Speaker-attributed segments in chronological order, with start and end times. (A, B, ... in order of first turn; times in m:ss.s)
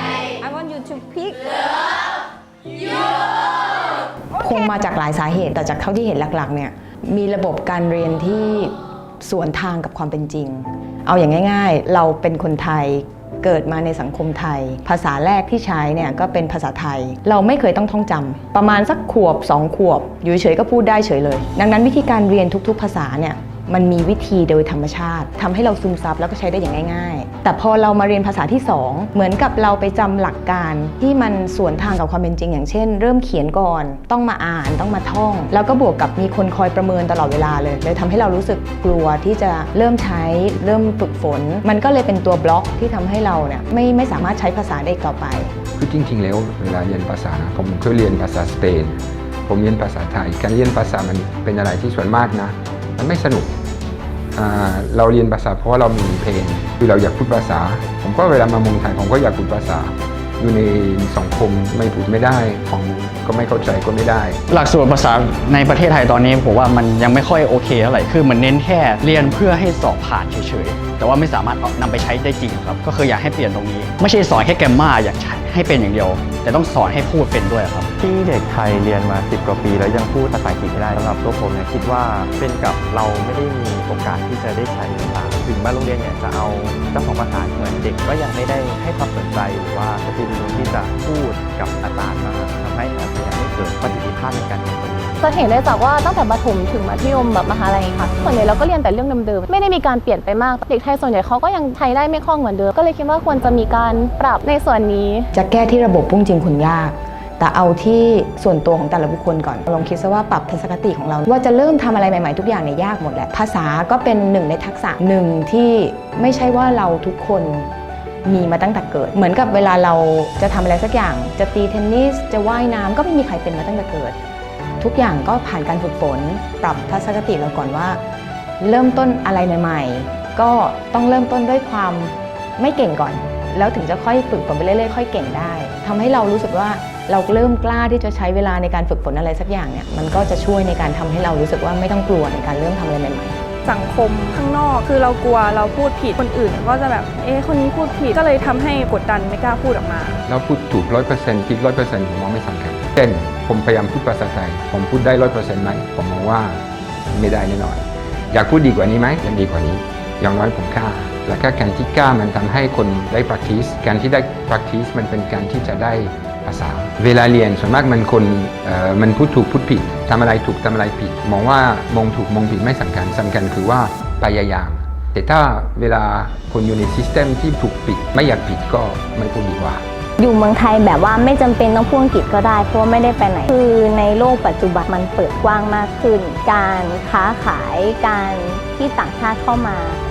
0:04.4-0:45.5 A
0:45.8-0:53.5 B
0:54.4-1:04.4 B
1:04.5-1:17.9 C
1:18.0-1:35.2 D
1:35.2-1:45.3 E
1:45.3-1:57.7 A
1:58.2-2:04.2 A
2:04.8-2:08.0 A
2:08.6-2:23.4 A
2:23.6-2:30.2 F
2:30.3-2:59.8 B
3:00.2-3:10.0 G